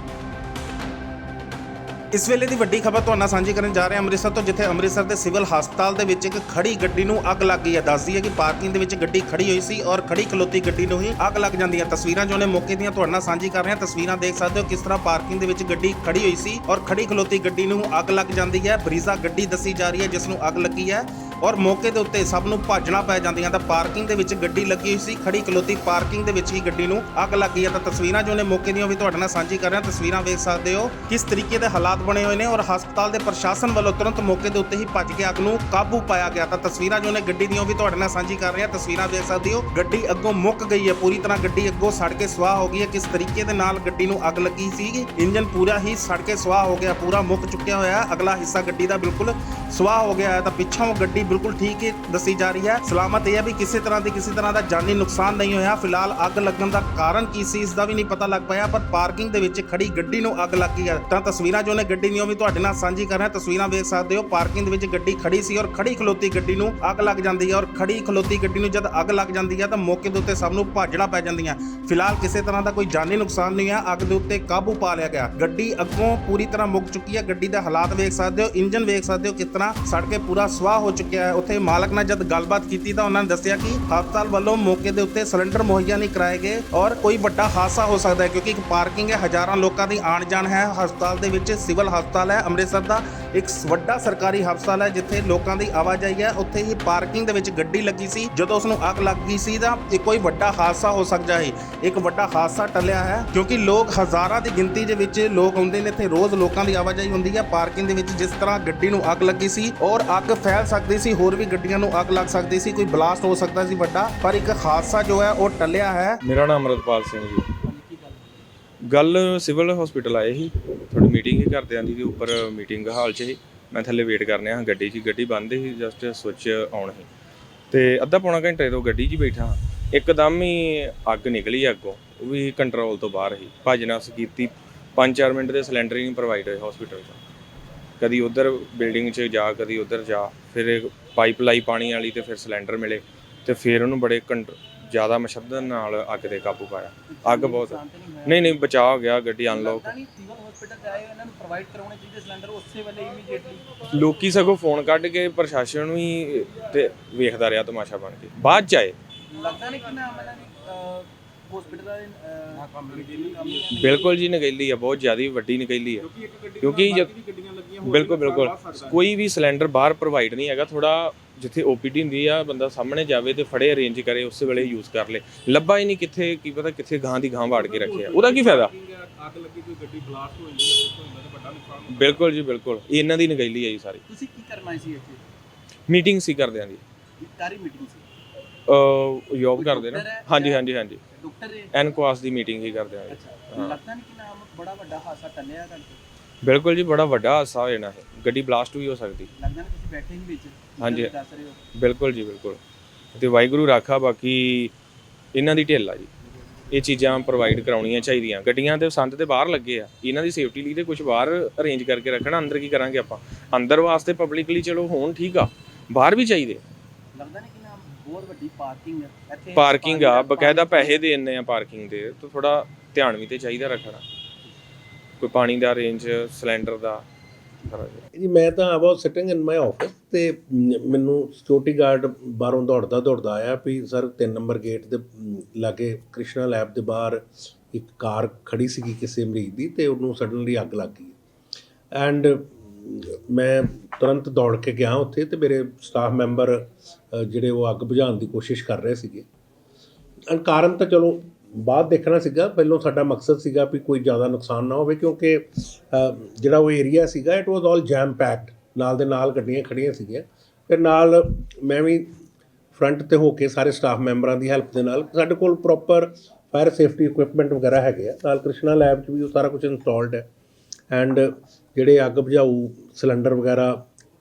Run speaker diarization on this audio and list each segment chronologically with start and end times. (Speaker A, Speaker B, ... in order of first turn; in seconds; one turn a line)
Speaker A: 2.1-116.2
Speaker B: 116.2-117.5
Speaker C: 117.6-118.5
Speaker B: 118.9-127.1
Speaker B: 127.7-137.2
Speaker B: 138.0-149.9
Speaker C: 147.1-148.6
Speaker C: 149.5-153.7
Speaker B: 153.9-159.0
Speaker C: 159.3-164.1
Speaker D: 162.8-163.9
Speaker B: 163.8-166.1
Speaker D: 166.0-169.1
Speaker B: 166.6-167.1
Speaker B: 167.8-178.7
Speaker D: 177.4-182.3
Speaker B: 181.9-184.0
Speaker C: 184.1-185.2
Speaker B: 185.9-186.8
Speaker C: 187.2-188.1
Speaker B: 188.7-191.0
Speaker C: 189.6-191.7
Speaker B: 191.7-193.8
Speaker C: 193.1-196.0
Speaker B: 196.4-199.3
Speaker C: 199.3-201.6
Speaker B: 200.8-201.1
Speaker B: 201.8-202.6
Speaker B: 203.2-204.7
Speaker B: 205.3-206.1
Speaker B: 206.7-216.6
Speaker C: 217.1-221.0
Speaker B: 219.6-224.0
Speaker B: 225.2-227.0
Speaker B: 227.7-228.0
Speaker E: 228.2-241.2
Speaker E: 241.9-249.3
Speaker E: 250.3-262.2
Speaker E: 262.7-270.3
Speaker E: 270.9-273.8